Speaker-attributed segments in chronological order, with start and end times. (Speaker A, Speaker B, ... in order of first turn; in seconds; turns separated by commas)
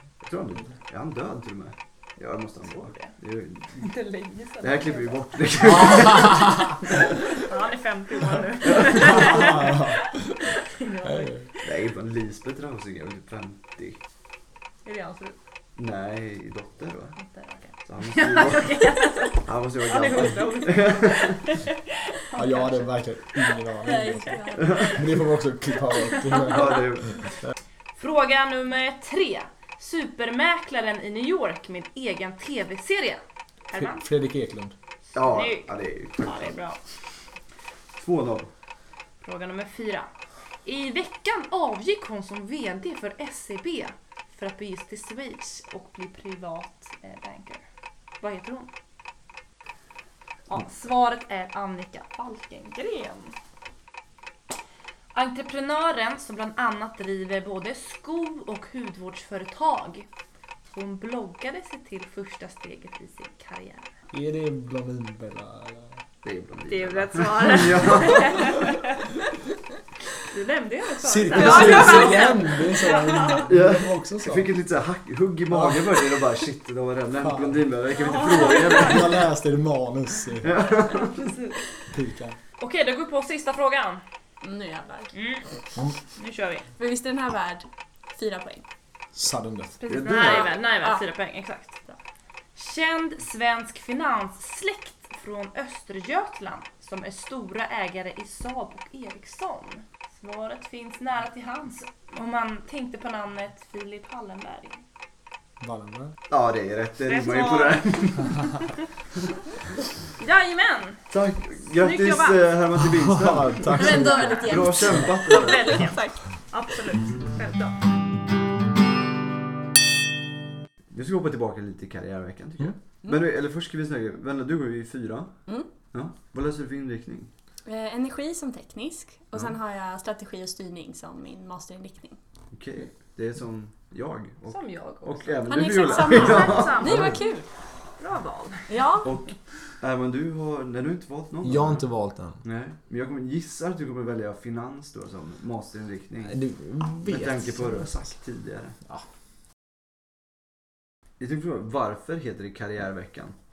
Speaker A: 0.2-3.9, Speaker B: 2.7-3.1, Speaker B: 3.8-6.0, Speaker A: 4.6-7.0, Speaker C: 5.9-6.7, Speaker B: 7.3-11.6, Speaker C: 9.0-10.4, Speaker C: 11.0-11.5, Speaker A: 11.6-14.0, Speaker B: 14.8-15.4, Speaker A: 15.8-17.2, Speaker B: 17.2-22.9, Speaker A: 17.9-21.4, Speaker C: 22.3-27.5, Speaker D: 23.8-25.2, Speaker B: 24.3-24.8, Speaker A: 24.6-25.0, Speaker B: 26.2-26.6, Speaker A: 26.3-27.3, Speaker B: 28.0-34.0, Speaker C: 33.7-34.8, Speaker A: 35.1-36.6, Speaker B: 35.2-36.8, Speaker A: 38.0-38.5, Speaker B: 39.2-40.1, Speaker B: 40.6-47.6, Speaker B: 48.2-48.7, Speaker B: 50.5-53.4, Speaker B: 55.1-60.1, Speaker B: 60.7-63.9, Speaker C: 64.1-66.0, Speaker A: 66.2-68.6, Speaker B: 66.7-69.1, Speaker B: 70.2-73.5, Speaker C: 71.0-74.5, Speaker A: 73.5-79.2, Speaker C: 75.5-76.0, Speaker C: 77.2-77.7, Speaker B: 78.0-79.1, Speaker C: 78.4-80.5, Speaker A: 80.4-81.3, Speaker B: 80.9-81.6, Speaker C: 81.9-82.4, Speaker B: 82.6-84.0, Speaker D: 84.4-85.2, Speaker B: 85.1-85.5, Speaker B: 86.2-86.7, Speaker D: 86.8-88.7, Speaker C: 89.2-89.8, Speaker B: 89.8-91.8, Speaker A: 89.9-90.5, Speaker B: 92.6-104.8, Speaker C: 105.6-106.2, Speaker A: 106.3-108.4, Speaker B: 107.1-108.7, Speaker B: 110.2-111.0, Speaker A: 111.1-115.8, Speaker B: 111.8-112.4, Speaker C: 112.8-115.1, Speaker D: 113.7-116.3, Speaker B: 113.8-117.8, Speaker A: 120.9-127.3, Speaker D: 127.7-132.2, Speaker A: 132.5-137.0, Speaker B: 134.5-137.3, Speaker D: 135.5-137.5, Speaker C: 136.8-137.2, Speaker B: 138.0-138.8, Speaker D: 138.7-139.2, Speaker A: 139.0-141.9, Speaker C: 141.4-142.4, Speaker A: 142.4-146.4, Speaker C: 146.3-148.1, Speaker A: 147.0-148.8, Speaker A: 151.2-153.3